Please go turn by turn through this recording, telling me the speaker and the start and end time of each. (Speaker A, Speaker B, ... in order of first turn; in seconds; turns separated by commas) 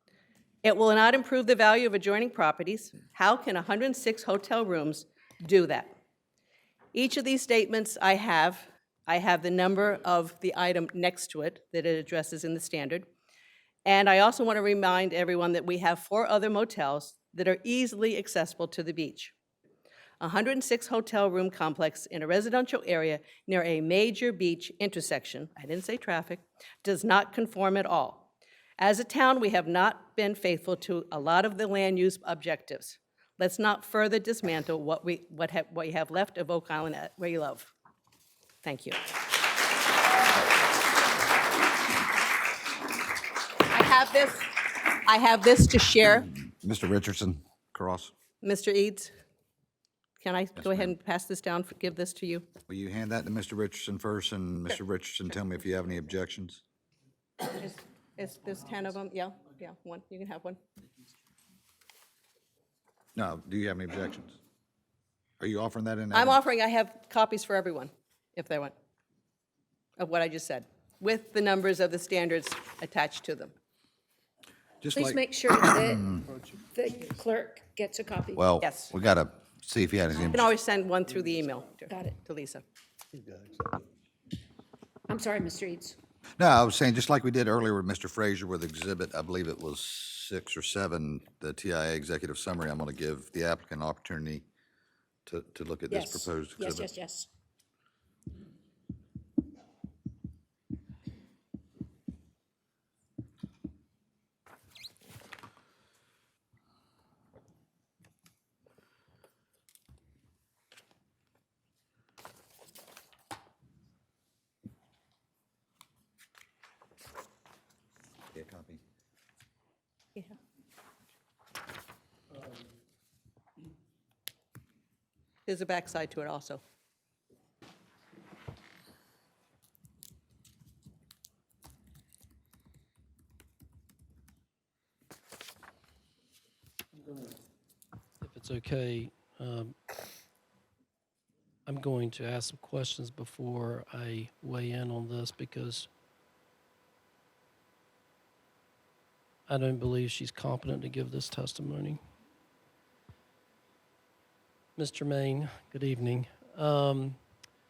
Speaker A: 0.6-5.9, Speaker A: 6.9-13.1, Speaker A: 13.8-19.3, Speaker A: 20.2-37.7, Speaker A: 38.6-39.1, Speaker A: 43.6-46.3, Speaker B: 46.2-48.1, Speaker A: 48.4-49.1, Speaker A: 50.2-52.5, Speaker B: 50.6-50.9, Speaker B: 52.7-56.6, Speaker A: 57.4-60.6, Speaker B: 63.1-64.4, Speaker B: 65.4-66.4, Speaker A: 66.1-68.7, Speaker A: 70.0-73.5, Speaker B: 74.8-76.2, Speaker C: 74.9-76.1, Speaker C: 76.7-78.4, Speaker B: 78.3-80.5, Speaker A: 78.6-78.9, Speaker A: 80.1-82.6, Speaker C: 81.9-82.2, Speaker C: 85.1-86.0, Speaker B: 86.4-94.5, Speaker B: 95.2-96.9, Speaker C: 95.9-97.3, Speaker B: 118.3-118.8, Speaker A: 125.5-126.6, Speaker D: 138.2-139.7, Speaker D: 141.7-145.9, Speaker D: 149.5-152.0, Speaker D: 154.8-157.2